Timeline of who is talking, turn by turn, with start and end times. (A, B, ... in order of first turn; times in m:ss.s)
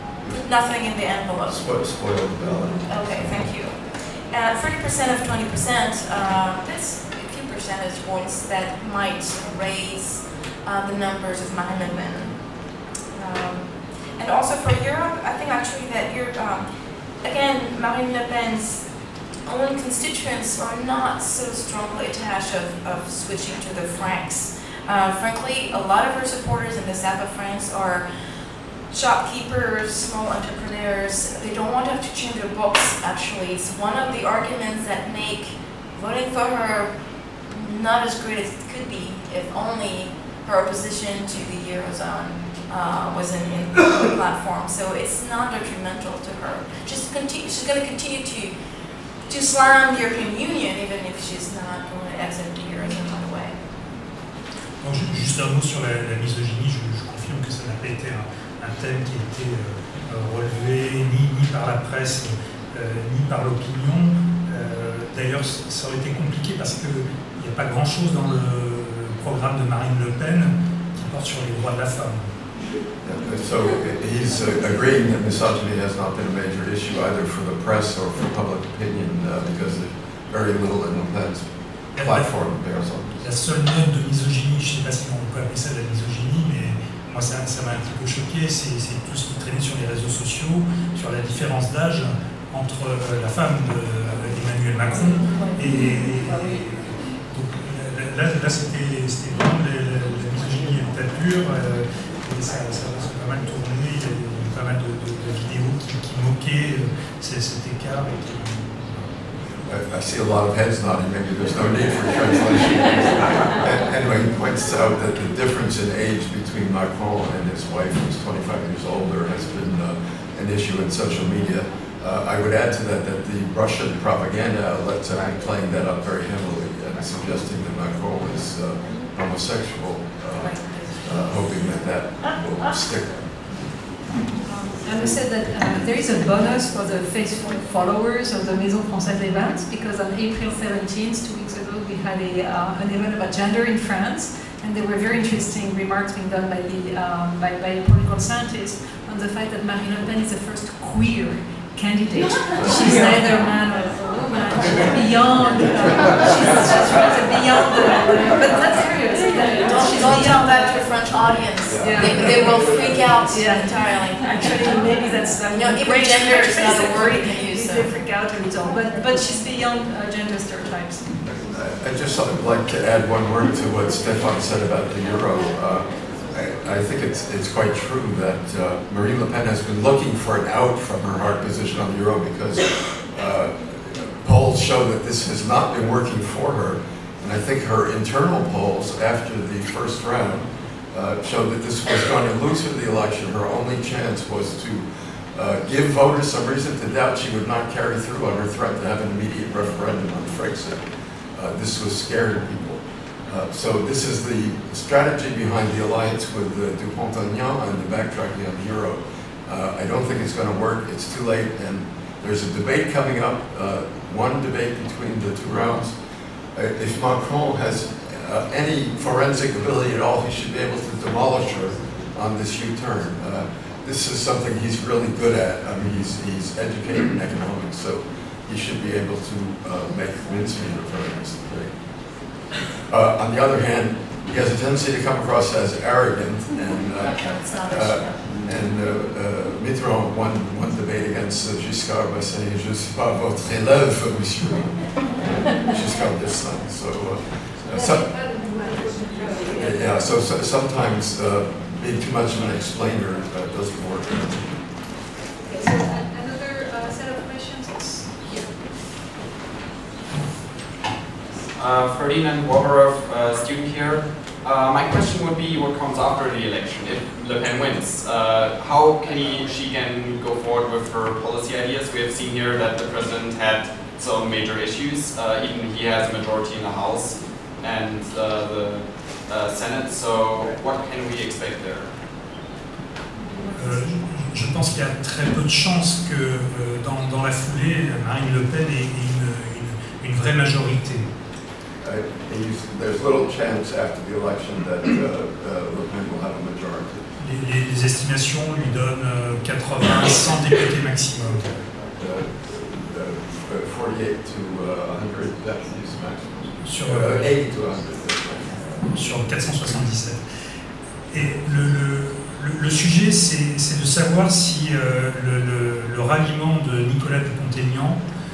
0:00.3-0:01.6 A
0:01.5-0:03.2 B
0:02.8-0:12.4 A
0:13.2-0:16.7 A
0:17.2-0:18.9 A
0:19.4-0:28.0 A
0:28.9-0:36.9 A
0:37.5-0:48.5 A
0:49.3-0:53.6 A
0:54.8-1:12.3 C
1:13.0-1:21.5 B
1:22.0-1:22.3 C
1:22.0-1:23.1 B
1:23.2-1:49.3 C
1:49.6-2:13.3 B
2:10.4-2:11.1 D
2:14.7-2:40.9 D
2:39.5-2:44.6 A
2:41.7-2:42.0 B
2:41.8-2:42.7 D
2:43.3-2:51.2 D
2:45.5-2:48.0 A
2:51.2-3:20.8 B
3:21.3-3:35.9 B
3:36.5-3:51.7 B
3:52.8-4:08.1 B
3:57.1-3:58.2 A
4:07.7-4:09.9 D
4:09.5-4:14.5 B
4:15.4-4:18.5 D
4:21.5-4:41.9 E
4:43.2-4:44.1 D
4:43.5-4:51.1 C
4:51.8-4:56.9 B
4:57.2-5:01.4 C
5:02.0-5:08.8 B
5:06.6-5:07.3 C
5:08.9-5:10.2 C
5:11.1-5:18.0 C